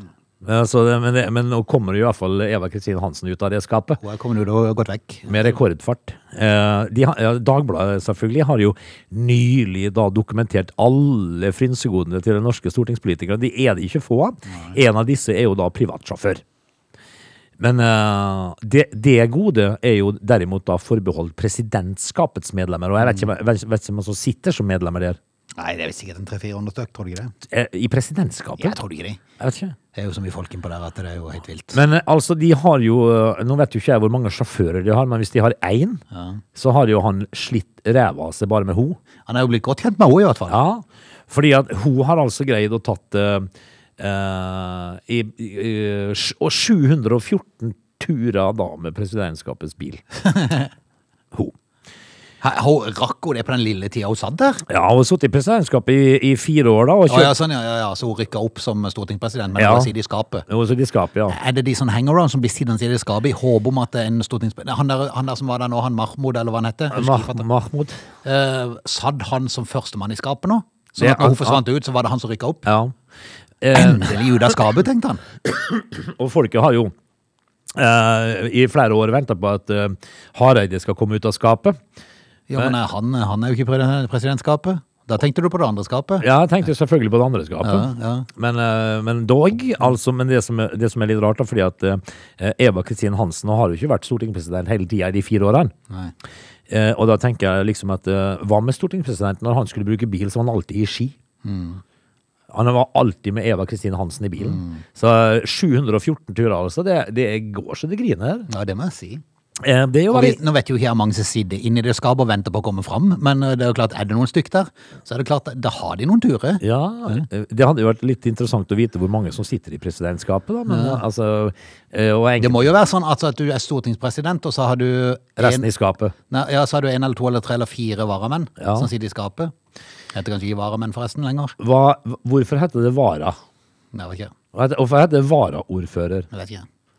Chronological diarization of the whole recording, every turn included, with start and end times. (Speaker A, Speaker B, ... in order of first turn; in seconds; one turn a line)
Speaker A: 0.4-4.0
Speaker B: 4.0-5.5
Speaker A: 5.3-16.4
Speaker B: 14.5-14.8
Speaker A: 17.6-25.2
Speaker B: 23.0-23.3
Speaker B: 25.6-27.3
Speaker A: 27.5-28.8
Speaker B: 28.6-29.2
Speaker A: 29.4-29.8
Speaker B: 29.9-31.8
Speaker A: 31.7-36.0
Speaker B: 36.1-36.4
Speaker A: 36.5-39.0
Speaker B: 39.3-40.6
Speaker A: 40.5-50.0
Speaker B: 50.2-50.7
Speaker B: 52.4-54.6
Speaker A: 54.7-57.4
Speaker B: 57.1-60.5
Speaker A: 59.6-59.9
Speaker A: 60.5-61.4
Speaker B: 61.3-67.5
Speaker A: 66.9-68.0
Speaker B: 68.2-72.7
Speaker A: 71.0-71.6
Speaker A: 72.7-73.0
Speaker A: 73.6-74.2
Speaker B: 73.7-75.2
Speaker A: 75.5-76.9
Speaker A: 77.7-81.8
Speaker B: 82.5-86.3
Speaker A: 86.2-95.7
Speaker B: 87.6-88.3
Speaker A: 96.7-101.2
Speaker B: 101.4-101.8
Speaker A: 102.5-108.5
Speaker B: 104.4-104.8
Speaker B: 108.5-109.2
Speaker A: 109.6-110.4
Speaker B: 110.1-117.2
Speaker A: 116.6-122.7
Speaker B: 120.7-121.0
Speaker B: 122.4-125.7
Speaker A: 125.4-126.2
Speaker B: 126.3-129.5
Speaker A: 128.6-128.9
Speaker B: 130.1-131.6
Speaker A: 131.6-133.4
Speaker B: 133.9-134.3
Speaker A: 134.5-136.3
Speaker B: 136.3-136.7